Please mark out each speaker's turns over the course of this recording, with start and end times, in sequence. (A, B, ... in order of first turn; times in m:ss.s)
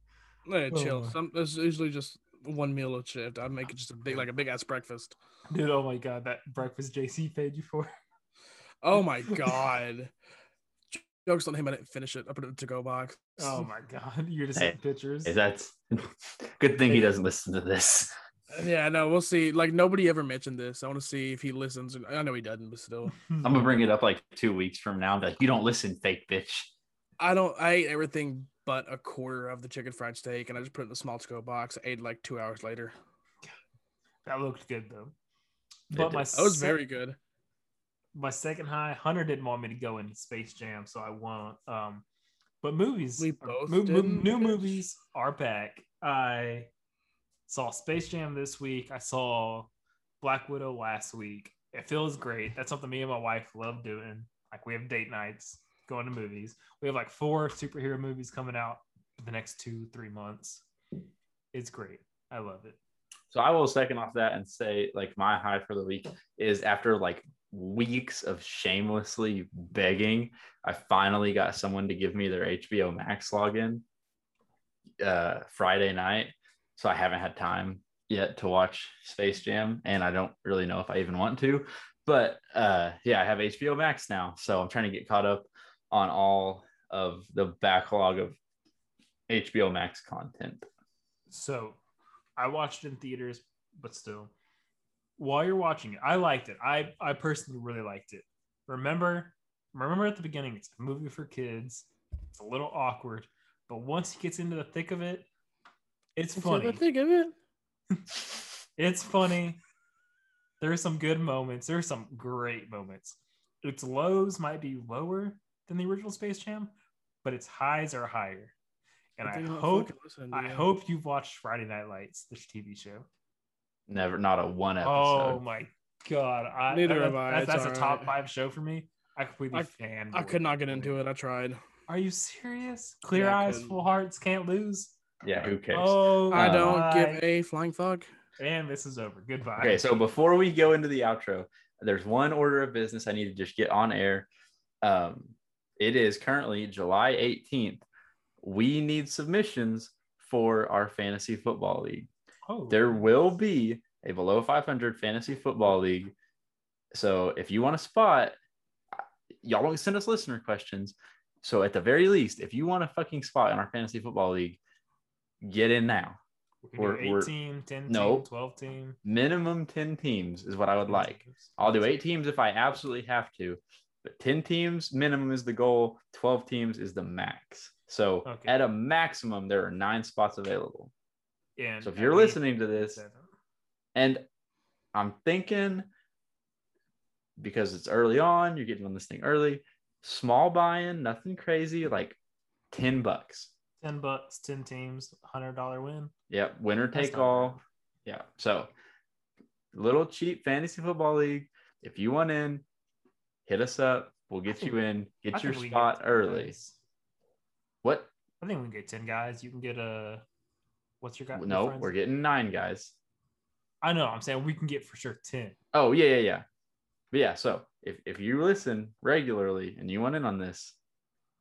0:00.5-0:05.2 A
0:00.7-0:01.2 B
0:05.5-0:07.9 B
0:08.8-0:10.1 A
0:09.3-0:09.6 B
0:10.9-0:13.6 A
0:13.4-0:15.3 B
0:15.2-0:18.1 C
0:18.5-0:23.2 A
0:23.1-0:23.6 B
0:23.4-0:26.7 C
0:27.2-0:32.9 A
0:34.2-0:35.1 B
0:35.9-0:36.8 B
0:35.9-0:36.2 C
0:36.3-0:37.2 A
0:38.1-0:42.0 B
0:42.6-0:46.7 B
0:43.2-0:44.8 A
0:47.5-0:49.7 B
0:50.2-1:00.6 B
1:01.5-1:02.8 B
1:03.3-1:13.8 C
1:15.0-1:28.4 C
1:29.3-1:30.7 C
1:31.3-1:31.8 B
1:32.4-1:34.3 B
1:35.2-1:45.3 B
1:46.2-1:46.8 B
1:46.4-1:47.3 A
1:47.9-1:49.6 B
1:50.6-1:56.7 B
1:57.2-1:58.5 B
1:59.2-2:03.0 B
1:59.2-2:00.7 A
2:03.9-2:05.4 C
2:04.8-2:10.9 B
2:06.7-2:08.1 A
2:09.5-2:11.6 A
2:11.9-2:15.0 B
2:13.1-2:13.8 A
2:15.2-2:16.8 C
2:15.7-2:17.2 B
2:16.3-2:18.1 A
2:18.4-2:20.0 B
2:19.6-2:24.3 C
2:24.8-2:27.8 C
2:28.4-2:32.1 C
2:32.5-2:33.0 B
2:32.7-2:36.1 C
2:36.9-2:38.4 C
2:38.9-2:44.6 C
2:45.4-2:46.2 C
2:46.6-2:49.0 B
2:46.8-2:47.3 C
2:47.9-2:48.3 C
2:49.0-3:00.9 C
2:50.9-2:51.9 B
2:58.2-2:58.5 B
3:01.6-3:03.3 B
3:01.8-3:03.0 C
3:03.9-3:04.2 C
3:04.9-3:05.9 C
3:07.4-3:12.2 C
3:12.7-3:13.5 C
3:13.8-3:16.1 B
3:16.3-3:18.7 C
3:16.9-3:17.6 B
3:19.7-3:22.6 C
3:23.4-3:26.5 C
3:25.3-3:26.8 B
3:27.8-3:28.1 C
3:28.4-3:30.2 B
3:31.0-3:31.9 B
3:31.3-3:32.9 C
3:33.8-3:35.6 B
3:35.7-3:36.4 C
3:37.1-3:40.8 C